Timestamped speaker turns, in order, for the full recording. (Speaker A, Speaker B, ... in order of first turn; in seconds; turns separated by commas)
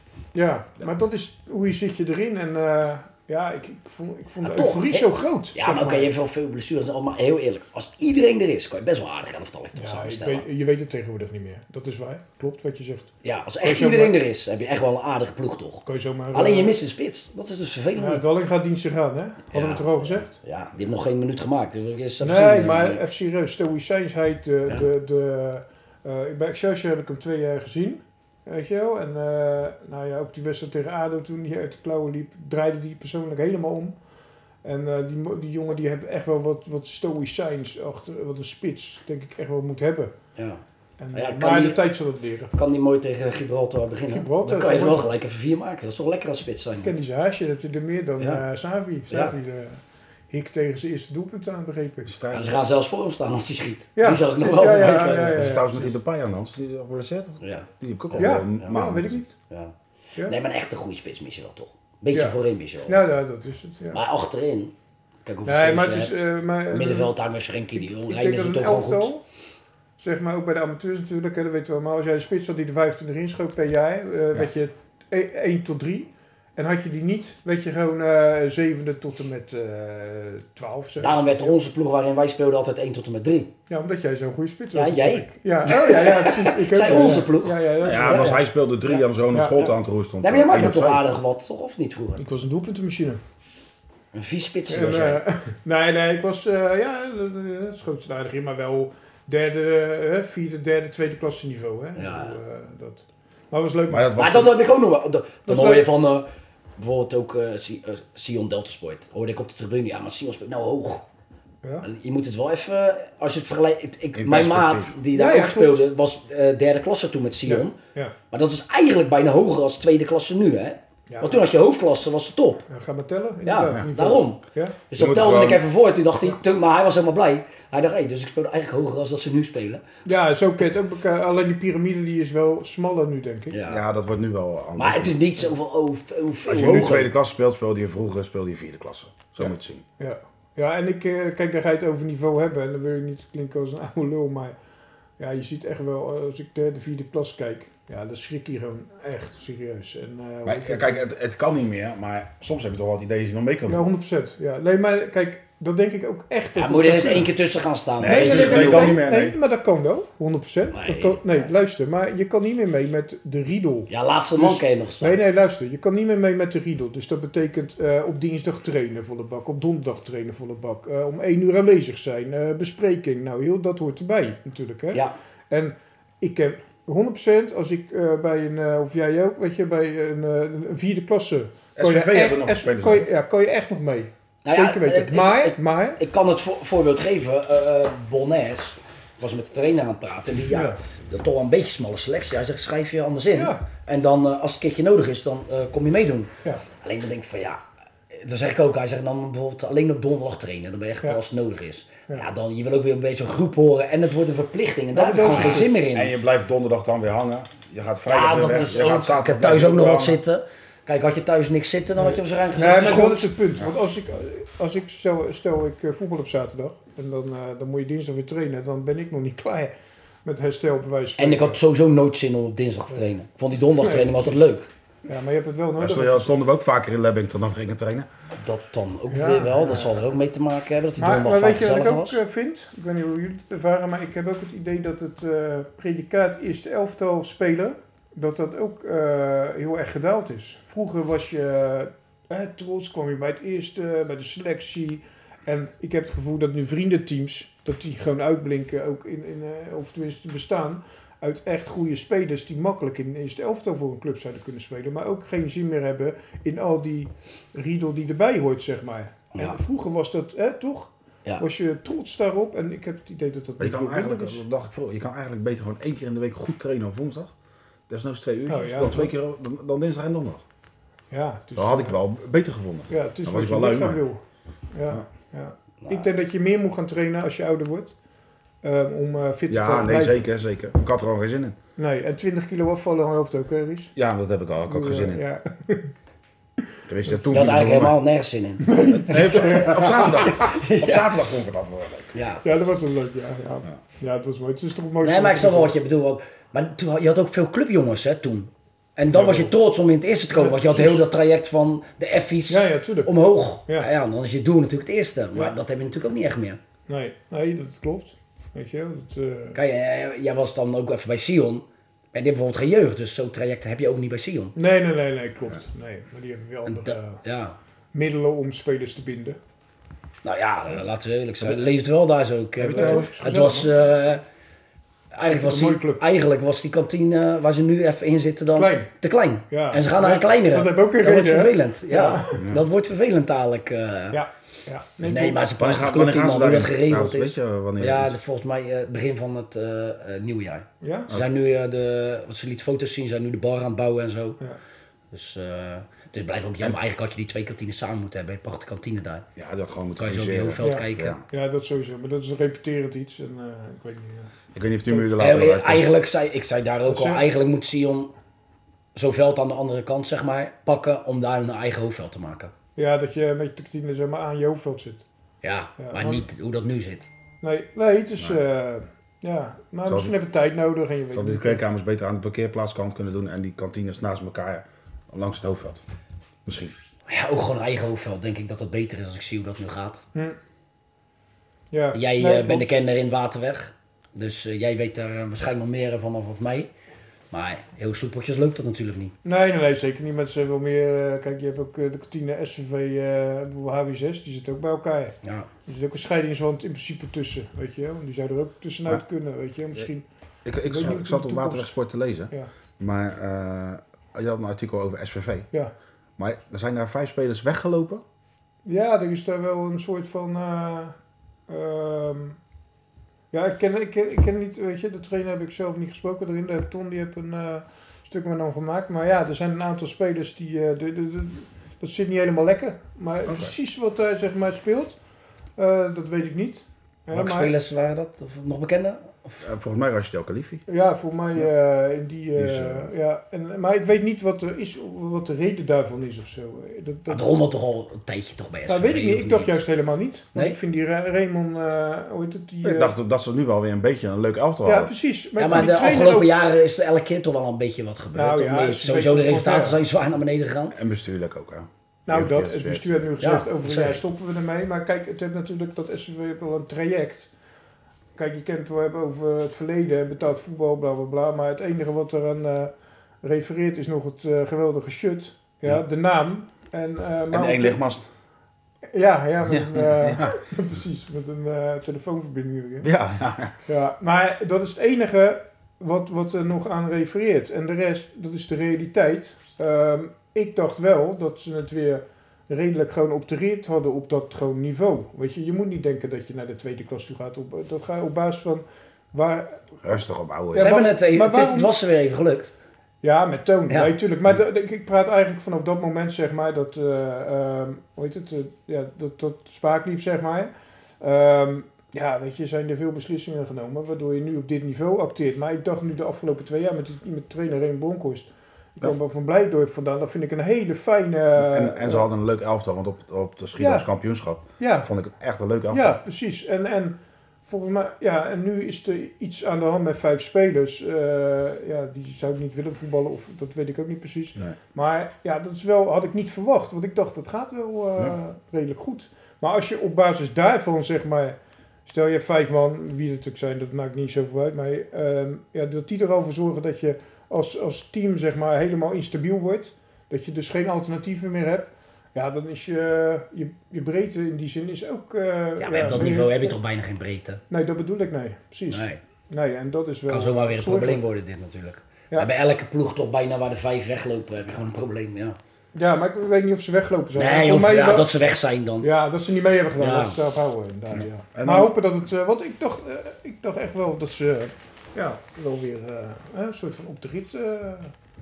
Speaker A: 0.3-6.1, Speaker B: 4.4-10.4, Speaker A: 9.7-14.2, Speaker B: 13.2-18.2, Speaker A: 15.8-16.7, Speaker A: 17.9-20.4, Speaker B: 19.5-23.0, Speaker A: 22.2-33.9, Speaker A: 34.6-40.1, Speaker A: 41.0-42.5, Speaker B: 41.1-41.8, Speaker B: 42.5-46.9, Speaker A: 44.1-45.1, Speaker A: 46.8-52.1, Speaker C: 52.0-52.6, Speaker B: 52.3-55.5, Speaker A: 54.0-55.9, Speaker C: 55.4-59.2, Speaker B: 57.4-58.4, Speaker A: 58.2-59.3, Speaker B: 60.2-63.1, Speaker A: 62.1-64.0, Speaker B: 63.9-64.7, Speaker B: 65.2-66.1, Speaker A: 65.5-67.1, Speaker B: 66.7-69.1, Speaker A: 67.7-69.2, Speaker A: 70.0-81.2, Speaker B: 81.0-83.5, Speaker A: 83.7-89.7, Speaker B: 84.7-87.6, Speaker C: 87.8-91.0, Speaker B: 90.2-92.2, Speaker A: 90.5-90.8, Speaker A: 92.2-93.2, Speaker B: 94.1-95.2, Speaker A: 94.7-104.2, Speaker B: 102.0-102.3, Speaker C: 103.9-104.6, Speaker B: 104.2-106.2, Speaker A: 105.5-105.8, Speaker B: 106.8-111.0, Speaker A: 111.6-111.9, Speaker B: 111.8-117.8, Speaker C: 114.2-114.9, Speaker A: 115.1-115.7, Speaker A: 117.5-118.1, Speaker B: 118.3-122.6, Speaker A: 121.1-121.5, Speaker A: 122.7-124.8, Speaker B: 123.4-129.9, Speaker C: 125.0-125.6, Speaker A: 130.0-133.6, Speaker B: 133.5-133.8, Speaker C: 133.7-135.2, Speaker B: 134.8-137.1, Speaker C: 136.5-139.8, Speaker A: 140.0-144.6, Speaker A: 145.2-151.0, Speaker C: 150.4-153.8, Speaker A: 153.7-157.3, Speaker B: 156.6-159.0, Speaker C: 158.0-159.4, Speaker A: 158.0-186.0, Speaker B: 160.7-161.4, Speaker B: 163.9-165.2, Speaker C: 181.8-183.1, Speaker B: 184.4-197.6, Speaker A: 190.5-190.8, Speaker A: 193.3-193.6, Speaker B: 198.1-206.1, Speaker A: 204.9-205.7, Speaker C: 205.3-210.2, Speaker B: 208.1-213.3, Speaker A: 212.0-219.7, Speaker A: 220.2-221.6, Speaker B: 221.2-224.7, Speaker A: 223.8-224.4, Speaker A: 225.1-226.3, Speaker C: 225.8-228.1, Speaker B: 228.4-232.2, Speaker A: 229.1-230.0, Speaker A: 231.0-264.4, Speaker C: 263.6-267.3, Speaker C: 267.9-270.4, Speaker A: 268.5-269.1, Speaker A: 271.1-272.0, Speaker C: 271.6-274.0, Speaker A: 272.9-277.9, Speaker B: 275.8-276.1, Speaker A: 278.6-280.2, Speaker C: 279.5-281.6, Speaker A: 281.8-283.9, Speaker C: 283.9-285.2, Speaker A: 284.7-285.9, Speaker C: 286.9-288.0, Speaker B: 287.3-291.1, Speaker A: 288.6-290.2, Speaker C: 289.1-292.1, Speaker B: 292.1-292.4, Speaker A: 292.4-295.7, Speaker B: 295.0-306.6, Speaker A: 299.1-299.5, Speaker A: 300.3-301.1, Speaker A: 302.5-303.1, Speaker A: 306.9-309.6, Speaker B: 309.5-314.6, Speaker A: 314.5-317.2, Speaker B: 316.7-317.5, Speaker A: 317.9-319.4, Speaker B: 320.2-324.2, Speaker C: 322.6-323.1, Speaker A: 322.7-323.7, Speaker B: 325.1-334.2, Speaker A: 325.3-326.0, Speaker A: 328.5-328.9, Speaker A: 329.5-332.4, Speaker A: 334.1-335.4, Speaker B: 335.0-344.4, Speaker C: 335.6-338.2, Speaker A: 340.8-341.1, Speaker B: 345.1-349.3, Speaker C: 349.4-351.2, Speaker B: 350.0-351.2, Speaker A: 350.6-354.3, Speaker C: 354.5-355.8, Speaker B: 355.2-358.1, Speaker A: 356.9-357.2, Speaker B: 358.9-362.5, Speaker A: 362.8-365.0, Speaker B: 365.4-367.1, Speaker A: 365.8-366.2, Speaker A: 367.4-371.6, Speaker C: 369.9-370.1, Speaker C: 371.1-375.8, Speaker C: 376.4-376.7, Speaker B: 377.1-380.0, Speaker A: 381.7-382.7, Speaker B: 381.9-386.7, Speaker B: 387.3-389.1, Speaker A: 389.2-400.1, Speaker C: 400.4-405.5, Speaker A: 400.6-401.7, Speaker C: 406.2-408.0, Speaker A: 408.6-410.9, Speaker A: 411.5-412.4, Speaker A: 413.3-425.0, Speaker C: 423.2-423.5, Speaker A: 425.6-427.5, Speaker B: 427.1-429.4, Speaker C: 429.4-430.6, Speaker A: 430.7-437.3, Speaker C: 432.4-432.9, Speaker B: 437.1-439.6, Speaker A: 438.7-442.9, Speaker C: 442.6-444.9, Speaker A: 444.6-446.3, Speaker B: 445.4-450.8, Speaker A: 448.1-449.8, Speaker C: 450.7-453.0, Speaker A: 452.1-457.3, Speaker B: 453.2-454.0, Speaker A: 458.1-467.8, Speaker C: 467.3-468.0, Speaker A: 468.9-472.9, Speaker C: 469.4-470.3, Speaker C: 472.8-473.5, Speaker A: 473.6-489.6, Speaker C: 489.8-490.7, Speaker A: 490.5-491.7, Speaker B: 490.6-492.5, Speaker A: 493.0-512.1, Speaker C: 511.4-515.9, Speaker A: 513.6-513.9, Speaker A: 514.6-514.9, Speaker A: 515.7-546.5, Speaker B: 545.6-547.4, Speaker A: 547.5-551.0, Speaker B: 548.7-549.0, Speaker B: 550.1-555.4, Speaker A: 555.7-558.1, Speaker B: 557.1-558.9, Speaker A: 558.8-567.9, Speaker B: 559.8-560.2, Speaker C: 560.9-561.7